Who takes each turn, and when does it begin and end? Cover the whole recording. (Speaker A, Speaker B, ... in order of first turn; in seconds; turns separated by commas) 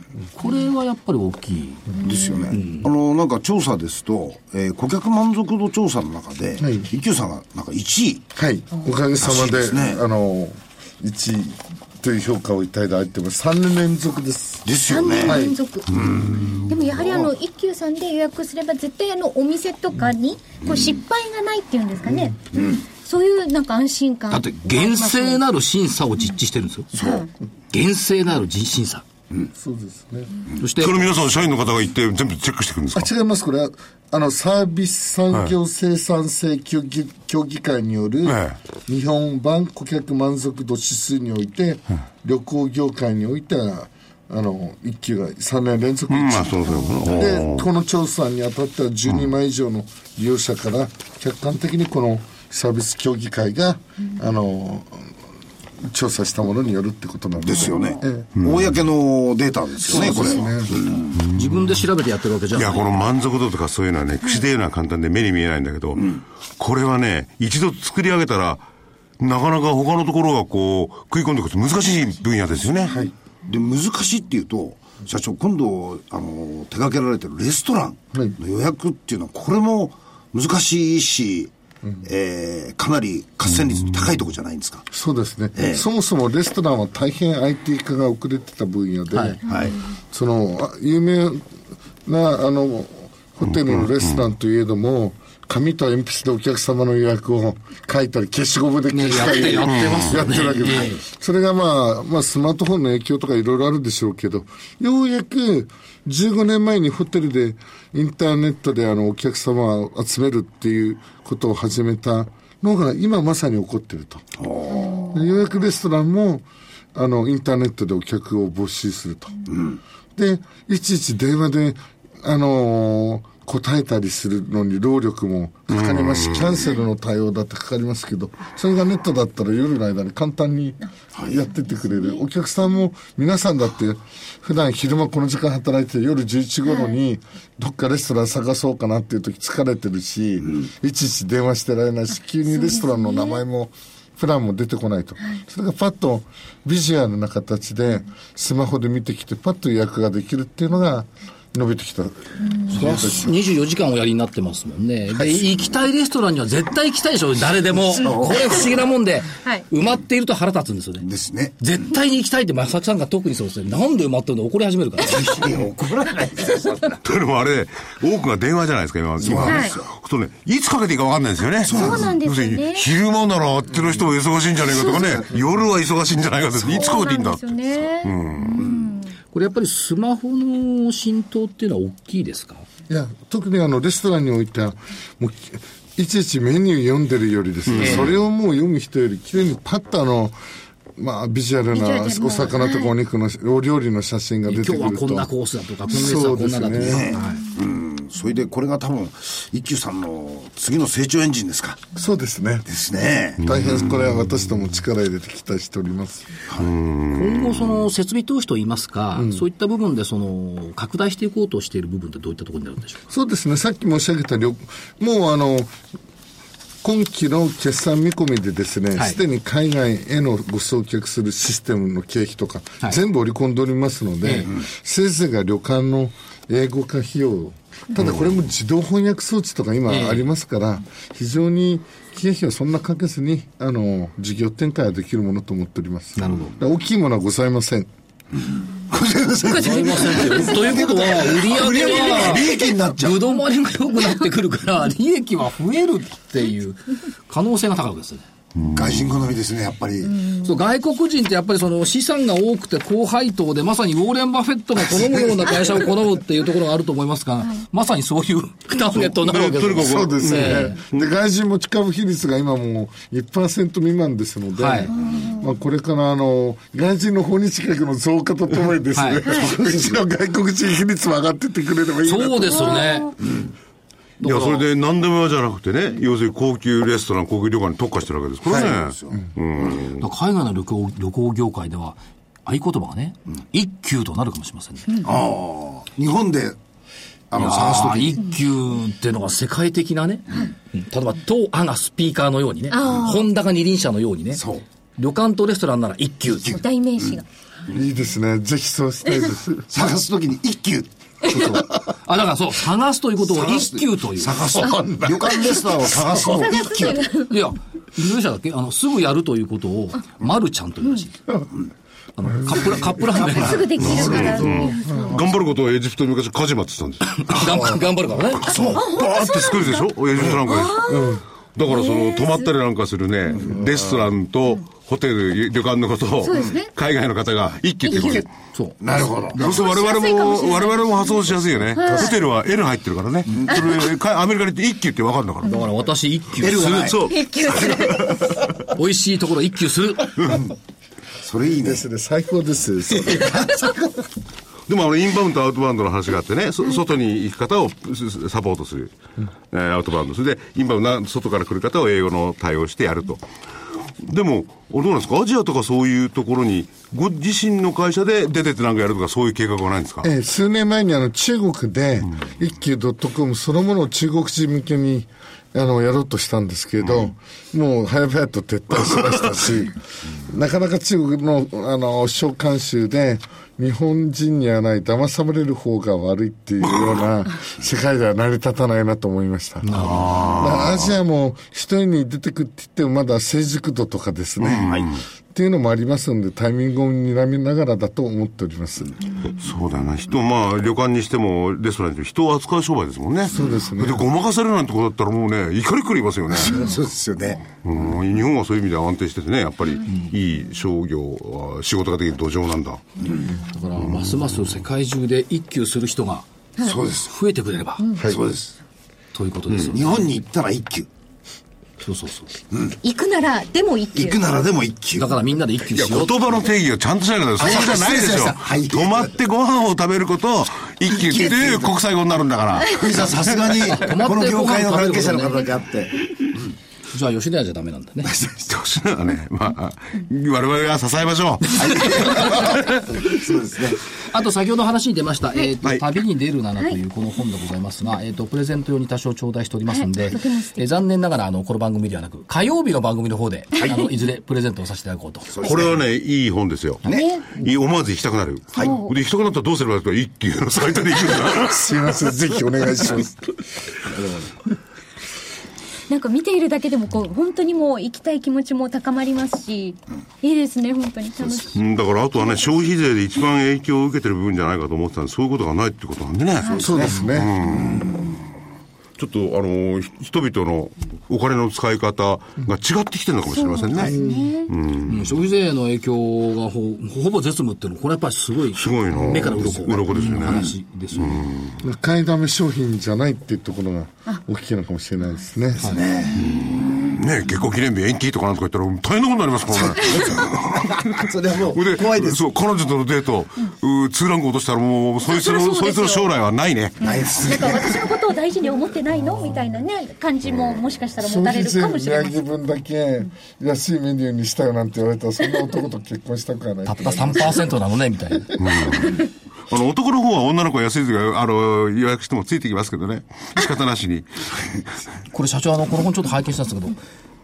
Speaker A: 0.4-1.9, Speaker B: 2.0-8.3, Speaker A: 2.5-2.9, Speaker C: 6.6-6.9, Speaker C: 8.3-15.6, Speaker B: 9.2-10.0, Speaker B: 14.7-15.4, Speaker D: 14.8-25.4, Speaker B: 15.9-17.3, Speaker A: 24.3-26.9, Speaker D: 26.9-27.3, Speaker B: 27.0-27.3, Speaker A: 27.7-29.0, Speaker C: 29.5-30.3, Speaker A: 30.6-31.1, Speaker E: 30.8-33.1, Speaker C: 32.9-55.1, Speaker E: 38.3-38.6, Speaker E: 46.1-47.7, Speaker C: 55.8-58.3, Speaker B: 57.4-61.2, Speaker E: 58.4-58.7, Speaker C: 59.9-60.8, Speaker A: 59.9-60.4, Speaker E: 61.1-61.5, Speaker A: 61.3-63.0, Speaker E: 62.5-68.6, Speaker E: 69.2-73.0, Speaker B: 73.5-81.5, Speaker B: 82.0-84.9, Speaker C: 84.9-89.4, Speaker B: 85.6-85.8, Speaker A: 89.1-89.4, Speaker B: 89.4-89.8, Speaker C: 90.1-91.5, Speaker C: 92.0-114.3, Speaker A: 98.9-101.0, Speaker E: 99.7-100.0, Speaker B: 114.4-115.1, Speaker C: 115.1-119.4, Speaker B: 119.5-119.8, Speaker C: 120.2-153.3, Speaker E: 125.7-126.6, Speaker D: 142.6-143.4, Speaker A: 152.7-161.1, Speaker B: 158.0-158.4, Speaker B: 161.0-161.6, Speaker A: 161.6-165.4, Speaker B: 165.1-167.0, Speaker E: 167.0-178.7, Speaker B: 169.2-169.8, Speaker D: 169.4-169.8, Speaker B: 171.6-172.2, Speaker D: 171.6-172.9, Speaker D: 176.7-179.1, Speaker A: 179.3-182.7, Speaker C: 182.9-190.3, Speaker E: 187.8-188.1, Speaker A: 187.8-188.1, Speaker C: 191.0-195.3, Speaker D: 191.7-192.9, Speaker A: 194.5-197.4, Speaker C: 195.9-197.1, Speaker B: 196.8-201.8, Speaker C: 201.9-202.7, Speaker B: 202.7-203.5, Speaker C: 203.4-206.4, Speaker E: 203.4-203.9, Speaker E: 206.6-207.7, Speaker A: 207.1-213.0, Speaker C: 209.2-209.4, Speaker C: 213.1-215.8, Speaker C: 216.8-237.9, Speaker A: 224.2-224.5, Speaker A: 229.9-230.3, Speaker A: 236.2-236.6, Speaker B: 238.9-243.3, Speaker A: 239.4-248.2, Speaker E: 248.6-249.1, Speaker B: 248.7-250.2, Speaker A: 250.4-260.8, Speaker E: 259.0-261.1, Speaker C: 259.8-272.8, Speaker A: 264.6-264.9, Speaker D: 264.9-265.5, Speaker A: 268.9-269.3, Speaker B: 269.3-270.0, Speaker A: 272.0-273.1, Speaker D: 272.5-273.1, Speaker A: 274.2-274.6, Speaker E: 274.2-280.1, Speaker B: 278.4-279.3, Speaker A: 280.0-285.0, Speaker B: 285.0-286.6, Speaker B: 287.3-288.2, Speaker A: 287.4-294.4, Speaker D: 292.7-293.3, Speaker B: 294.3-294.6, Speaker A: 295.0-296.6, Speaker D: 296.4-297.2, Speaker C: 297.7-299.9, Speaker B: 299.7-301.4, Speaker A: 301.3-304.5, Speaker B: 303.2-307.1, Speaker C: 304.7-305.2, Speaker D: 306.2-307.4, Speaker A: 307.3-311.2, Speaker A: 312.2-313.9, Speaker D: 313.2-315.2, Speaker E: 313.8-317.6, Speaker C: 314.8-315.2, Speaker A: 317.1-318.7, Speaker E: 318.4-328.3, Speaker B: 318.5-318.8, Speaker D: 318.7-319.9, Speaker D: 320.4-322.5, Speaker C: 320.9-321.2, Speaker D: 326.2-326.7, Speaker D: 327.9-328.3, Speaker A: 328.5-329.6, Speaker B: 328.8-329.5, Speaker E: 329.4-335.6, Speaker D: 329.4-332.2, Speaker D: 333.5-333.8, Speaker A: 335.4-337.1, Speaker B: 336.4-337.1, Speaker E: 336.8-338.2, Speaker D: 337.0-338.4, Speaker A: 338.7-340.4, Speaker E: 340.2-340.4, Speaker B: 341.2-341.8, Speaker C: 341.6-343.9, Speaker E: 344.7-348.9, Speaker E: 349.5-353.2, Speaker E: 354.0-360.1, Speaker C: 360.0-389.0, Speaker A: 379.6-380.4, Speaker E: 379.7-380.9, Speaker E: 384.4-385.0, Speaker E: 389.4-396.6, Speaker C: 393.3-394.0, Speaker B: 396.3-397.6, Speaker E: 397.6-402.9, Speaker A: 403.5-406.3, Speaker B: 406.6-407.1, Speaker A: 407.0-407.8, Speaker D: 407.8-408.1, Speaker B: 408.0-408.5, Speaker A: 409.1-410.0, Speaker B: 409.7-410.9, Speaker A: 411.8-412.3, Speaker D: 412.8-414.2, Speaker B: 413.9-415.1, Speaker A: 415.0-416.2, Speaker E: 415.8-423.5, Speaker B: 417.4-419.1, Speaker B: 420.9-421.8, Speaker B: 422.7-426.5, Speaker A: 423.7-425.5, Speaker A: 426.9-428.1, Speaker B: 428.0-428.6, Speaker E: 428.5-433.0, Speaker B: 431.6-433.8, Speaker A: 434.0-445.6, Speaker D: 439.7-440.7, Speaker B: 445.4-445.8, Speaker E: 445.4-451.7, Speaker D: 446.9-447.4, Speaker B: 446.9-447.1, Speaker B: 448.6-448.8, Speaker D: 448.6-448.9, Speaker C: 451.4-453.3, Speaker B: 453.9-454.3, Speaker D: 455.9-461.6, Speaker E: 461.5-467.9, Speaker D: 466.4-466.7, Speaker B: 466.5-467.0, Speaker C: 466.6-467.4, Speaker E: 469.0-475.1, Speaker D: 473.3-474.5, Speaker A: 474.9-481.3, Speaker E: 478.6-481.6, Speaker C: 481.6-485.7, Speaker B: 485.6-486.8, Speaker E: 486.2-491.0, Speaker B: 489.7-492.2, Speaker E: 491.5-496.9, Speaker D: 495.0-496.1, Speaker B: 496.8-497.8, Speaker D: 496.9-502.2, Speaker C: 501.0-507.5, Speaker A: 506.6-508.4, Speaker E: 508.4-514.6, Speaker A: 515.1-516.8